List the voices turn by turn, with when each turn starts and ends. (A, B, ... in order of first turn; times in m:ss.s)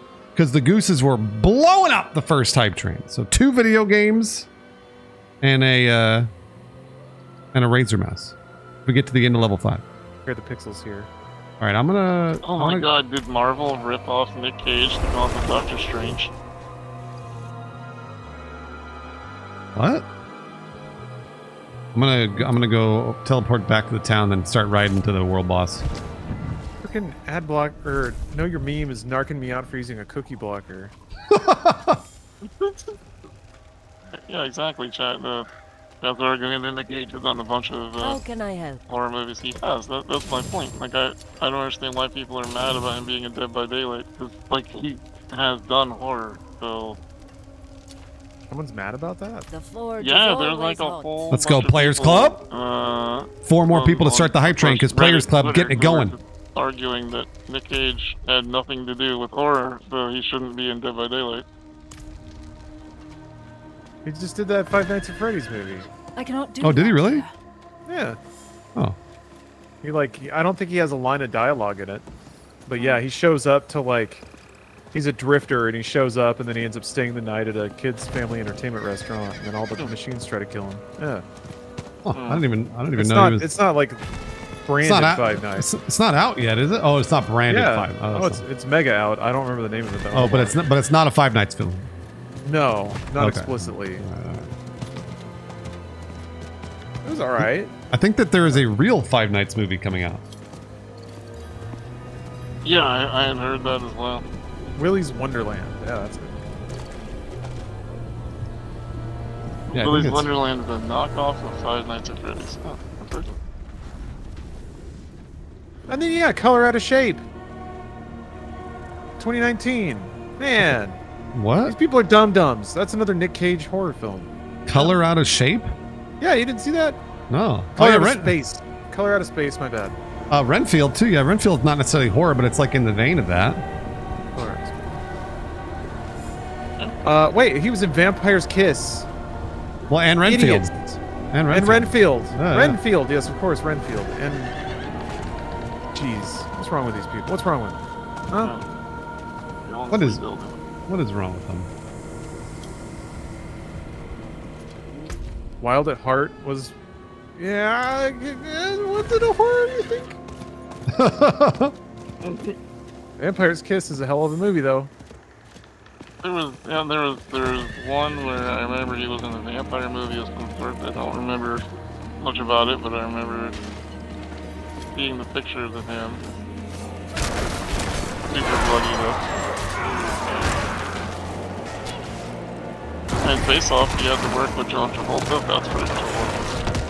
0:00.4-0:04.5 A
0:05.4-0:06.3 A
0:07.5-0:09.8 A
0:10.2-0:11.1 B
0:11.6-0:12.8 A
0:12.4-0:16.3 C
0:19.7-0:20.0 A
0:21.9-0:25.8 A
0:26.8-0:30.9 B
0:31.3-0:32.0 A
0:32.4-0:33.0 C
0:34.1-0:35.5 C
0:36.0-0:38.2 C
0:38.0-0:38.8 D
0:38.9-0:47.0 C
0:48.5-0:49.5 B
0:49.5-0:51.3 D
0:50.0-1:01.4 C
0:51.3-0:52.4 A
0:53.4-0:56.1 A
1:04.0-1:05.9 B
1:06.2-1:07.3 D
1:06.6-1:07.2 A
1:07.8-1:08.2 B
1:09.8-1:12.0 B
1:12.7-1:14.2 B
1:12.8-1:13.0 C
1:14.9-1:21.2 B
1:22.0-1:23.6 A
1:22.1-1:22.4 C
1:23.0-1:24.0 B
1:24.6-1:25.7 B
1:24.8-1:28.4 A
1:27.5-1:30.6 B
1:30.1-1:31.9 A
1:32.4-1:34.0 B
1:33.2-1:34.5 A
1:37.0-1:37.7 B
1:37.4-1:40.2 A
1:42.6-1:44.2 C
1:44.8-1:46.4 B
1:49.7-1:53.4 C
1:49.7-1:50.3 A
1:55.9-1:57.2 B
1:59.2-2:01.0 B
2:01.3-2:01.8 A
2:01.6-2:05.0 B
2:04.7-2:05.7 A
2:06.2-2:07.0 B
2:07.3-2:08.4 A
2:07.8-2:10.0 B
2:10.3-2:13.6 A
2:14.3-2:14.8 B
2:17.0-2:19.1 B
2:19.9-2:20.7 A
2:20.2-2:21.0 B
2:21.3-2:22.8 A
2:21.5-2:24.5 B
2:25.9-2:27.8 B
2:28.3-2:28.7 C
2:29.7-2:30.6 C
2:29.9-2:30.2 A
2:30.9-2:31.7 A
2:35.6-2:36.7 B
2:37.4-2:40.2 B
2:40.9-2:41.7 A
2:42.2-2:42.6 C
2:43.2-2:44.9 B
2:46.2-2:51.6 C
2:52.2-2:53.6 C
2:54.9-2:56.2 C
2:58.3-2:59.3 C
2:59.8-3:00.6 C
3:03.2-3:06.5 C